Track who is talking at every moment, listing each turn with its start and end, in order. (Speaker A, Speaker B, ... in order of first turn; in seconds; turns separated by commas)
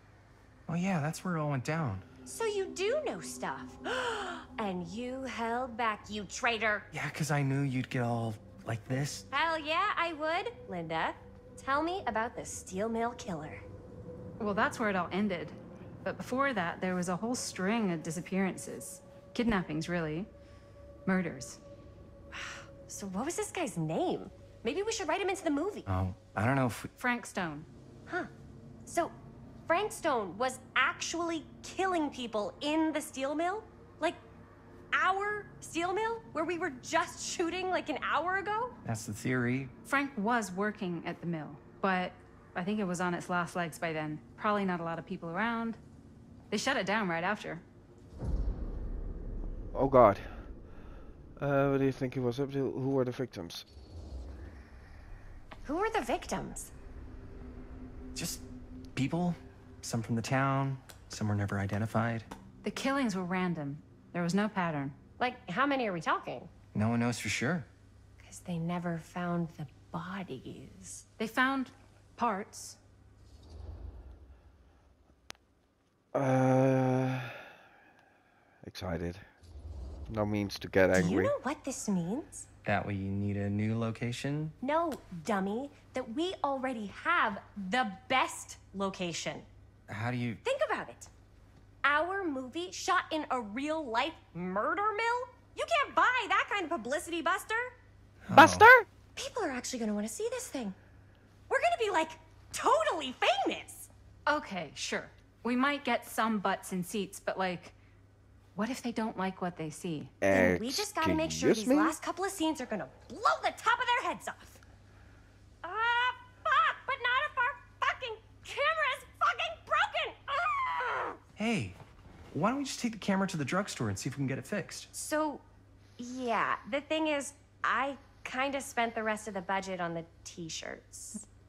Speaker A: 0.7-2.0, Speaker B: 2.2-6.8, Speaker A: 6.9-9.2, Speaker B: 9.3-13.6, Speaker C: 14.4-20.3, Speaker C: 21.1-21.6, Speaker B: 22.3-25.9, Speaker A: 25.9-26.9, Speaker C: 27.0-27.7, Speaker B: 28.9-29.1, Speaker B: 29.7-34.2, Speaker B: 34.9-38.7, Speaker A: 38.8-39.7, Speaker C: 39.8-45.8, Speaker C: 46.5-47.6, Speaker D: 49.7-50.4, Speaker D: 51.4-53.6, Speaker B: 55.6-56.7, Speaker A: 58.1-62.3, Speaker C: 62.6-65.0, Speaker B: 65.2-66.5, Speaker A: 66.7-67.7, Speaker B: 68.2-71.0, Speaker C: 71.2-72.8, Speaker D: 76.1-77.4, Speaker D: 78.6-79.2, Speaker D: 80.1-81.3, Speaker B: 80.9-82.5, Speaker A: 82.6-84.5, Speaker B: 84.6-89.5, Speaker A: 89.9-90.4, Speaker B: 90.4-91.1, Speaker B: 91.8-97.7, Speaker A: 98.2-98.7, Speaker D: 98.3-98.8, Speaker B: 99.2-100.8, Speaker B: 101.5-103.9, Speaker C: 104.2-107.7, Speaker C: 108.5-110.1, Speaker D: 110.2-112.0, Speaker B: 110.3-114.6, Speaker B: 115.6-121.2, Speaker A: 121.4-121.8, Speaker A: 122.3-124.9, Speaker B: 124.9-125.4, Speaker B: 126.0-131.2